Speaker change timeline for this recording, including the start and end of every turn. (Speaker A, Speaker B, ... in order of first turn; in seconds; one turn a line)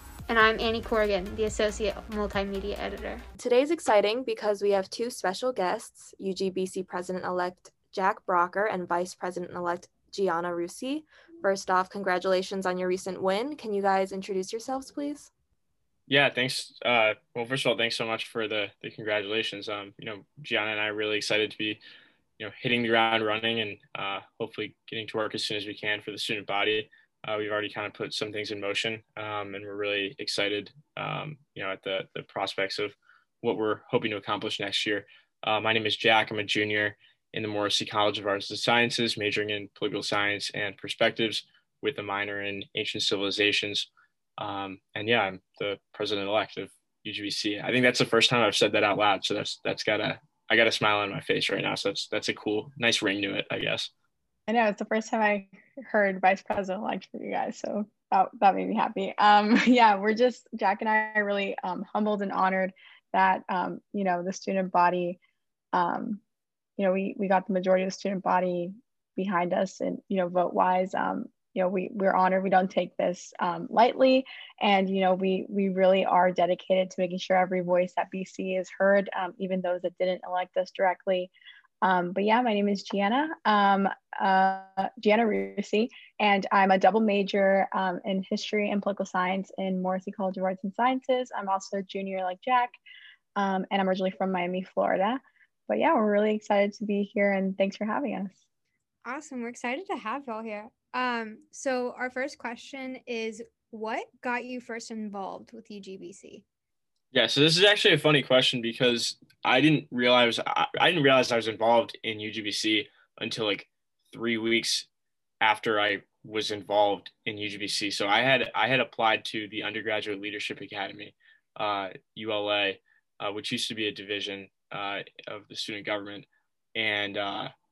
Speaker A: 0.3-3.2
Speaker B: 3.4-15.3
Speaker C: 16.1-21.8
Speaker C: 22.4-53.9
Speaker D: 54.5-65.2
Speaker D: 65.7-66.2
Speaker D: 66.8-81.3
Speaker D: 81.8-92.8
Speaker D: 93.4-98.4
Speaker E: 99.0-106.4
Speaker C: 107.1-114.9
Speaker C: 115.4-127.5